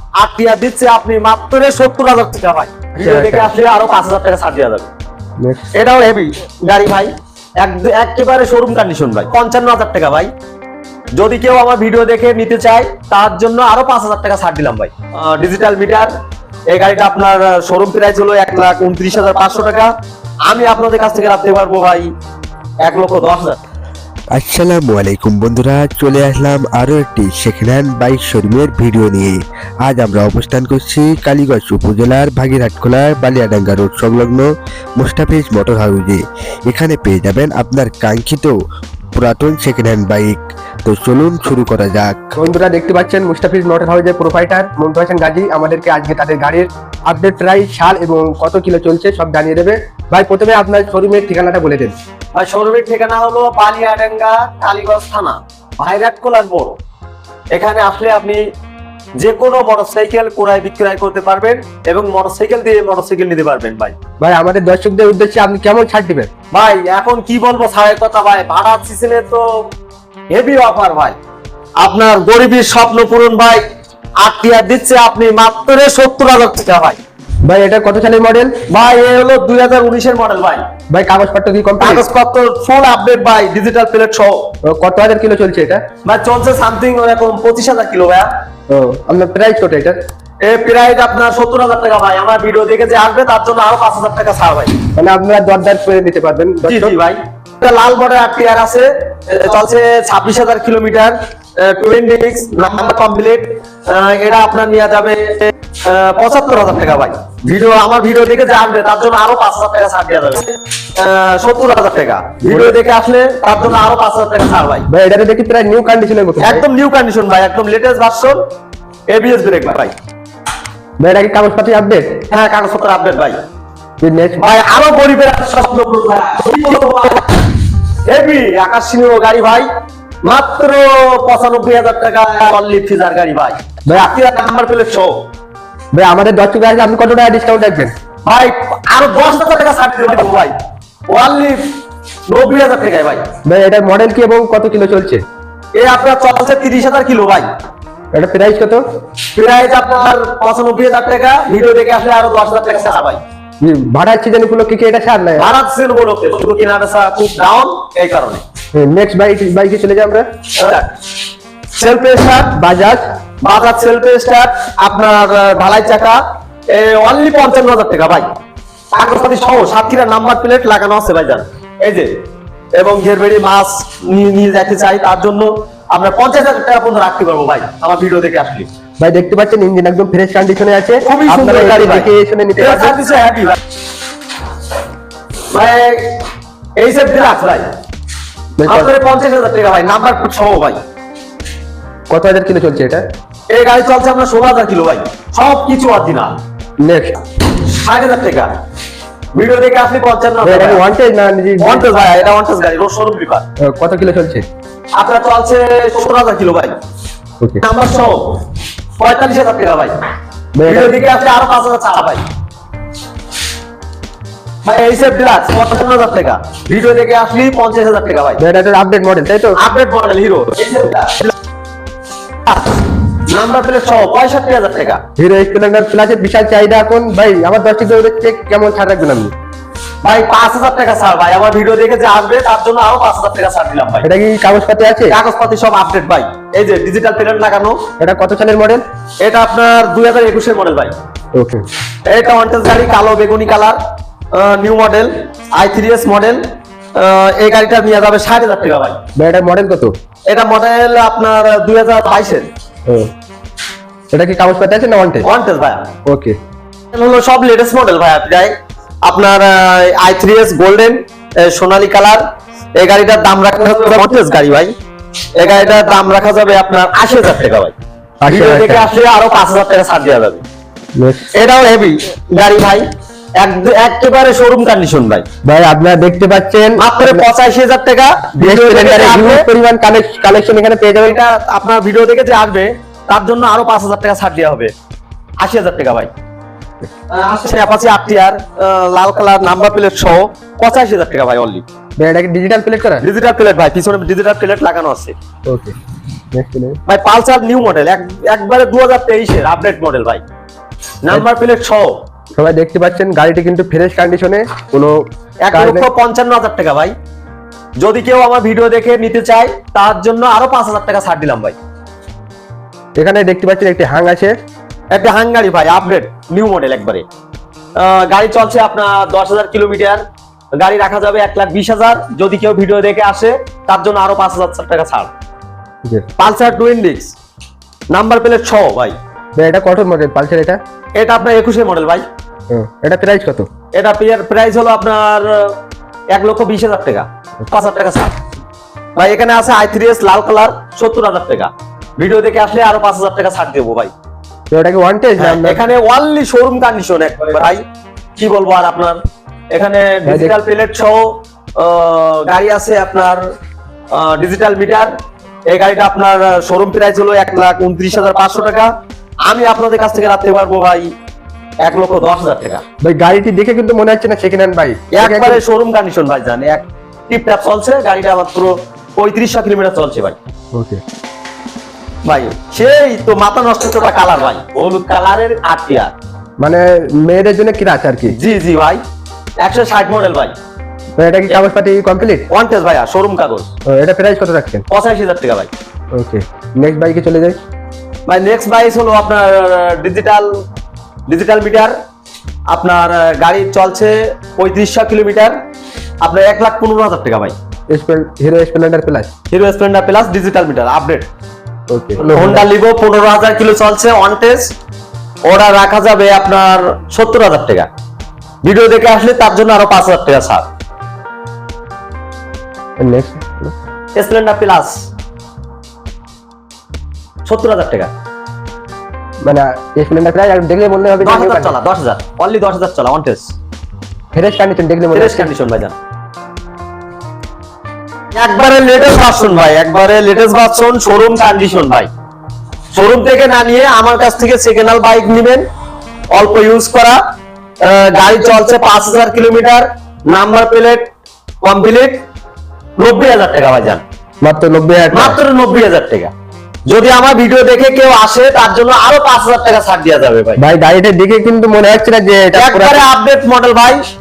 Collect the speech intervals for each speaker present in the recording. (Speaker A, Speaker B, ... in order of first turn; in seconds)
Speaker A: 0.2-4.9, 5.7-10.3, 11.1-16.1, 16.7-19.9, 20.4-22.1, 22.8-23.6, 52.4-56.8, 57.5-58.4, 59.2-63.9, 66.5-69.7, 70.3-71.2, 71.8-73.6, 74.2-77.0, 78.7-80.6, 81.8-84.4, 86.0-88.3, 90.4-94.7, 96.6-114.8, 116.4-118.4, 119.1-119.9, 122.3-123.4, 124.4-127.5, 128.0-129.7, 130.2-135.1, 138.2-140.5, 141.1-141.8, 142.3-143.2, 145.8-147.5, 149.3-153.2, 155.4-158.4, 160.6-160.9, 161.7-162.5, 163.4-166.2, 166.7-168.4, 168.9-172.1, 172.8-178.7, 181.0-183.6, 185.5-186.2, 186.8-187.7, 188.7-190.8, 193.5-196.3, 197.5-198.5, 199.3-200.8, 201.6-203.4, 204.9-206.7, 207.6-208.4, 209.0-210.0, 210.7-212.2, 214.6-218.4, 219.6-221.3, 223.3-225.0, 230.0-234.1, 235.1-237.8, 239.2-240.9, 242.1-243.8, 244.3-246.4, 246.9-249.0, 250.3-252.5, 255.2-255.9, 256.9-262.2, 262.8-264.7, 265.4-267.7, 268.3-270.4, 271.3-272.8, 273.4-275.2, 276.8-279.4, 281.0-284.7, 285.4-286.1, 287.1-291.6, 293.0-295.1, 296.9-300.2, 301.0-301.9, 305.4-306.9, 307.8-311.6, 314.9-317.0, 317.8-320.0, 320.6-325.1, 326.2-327.1, 327.9-328.9, 330.9-332.0, 333.7-335.6, 336.1-338.1, 338.9-343.9, 345.2-347.6, 348.1-349.0, 349.5-353.2, 353.9-354.9, 355.5-358.7, 359.2-360.9, 361.6-362.6, 364.9-370.2, 372.1-375.9, 378.1-378.8, 379.4-380.3, 382.3-383.5, 384.7-385.5, 388.1-390.4, 391.1-391.7, 392.5-395.3, 396.0-397.3, 399.3-401.1, 402.0-404.5, 405.2-407.7, 408.4-410.4, 413.9-414.8, 417.2-417.9, 421.0-423.3, 424.9-425.7, 428.1-431.9, 432.7-435.4, 436.1-437.0, 437.6-440.9, 441.4-442.0, 442.8-443.8, 444.9-446.1, 446.7-450.4, 452.3-453.8
Speaker B: 3.0-3.5, 5.4-5.7, 42.4-51.9, 64.2-66.3, 77.4-78.5, 80.9-82.0, 84.7-85.8, 88.7-90.0, 94.9-96.9, 112.4-112.7, 114.9-116.6, 121.0-122.2, 124.0-124.5, 133.9-134.1, 135.9-137.9, 143.4-145.2, 148.1-148.8, 153.6-155.5, 158.7-160.2, 162.6-163.0, 179.0-183.0, 188.6-188.9, 192.1-193.0, 196.8-197.2, 200.4-201.8, 203.6-204.4, 210.6-210.9, 218.4-219.6, 225.2-229.3, 234.0-235.2, 238.0-238.8, 241.3-241.6, 249.2-249.9, 254.1-255.2, 256.1-256.4, 268.2-268.9, 271.0-271.3, 275.4-277.2, 278.4-281.2, 292.0-293.0, 295.5-295.7, 296.3-296.8, 302.4-305.0, 305.5-305.9, 313.0-314.3, 329.4-330.6, 332.5-333.5, 344.5-345.6, 350.1-350.4, 362.8-365.4, 370.5-370.8, 376.4-378.1, 381.0-382.2, 383.6-384.6, 385.9-387.4, 397.7-399.1, 401.7-402.4, 412.8-413.5, 419.2-421.5, 424.1-425.3, 444.2-445.2, 450.4-452.8
Speaker C: 24.3-38.6, 39.1-42.3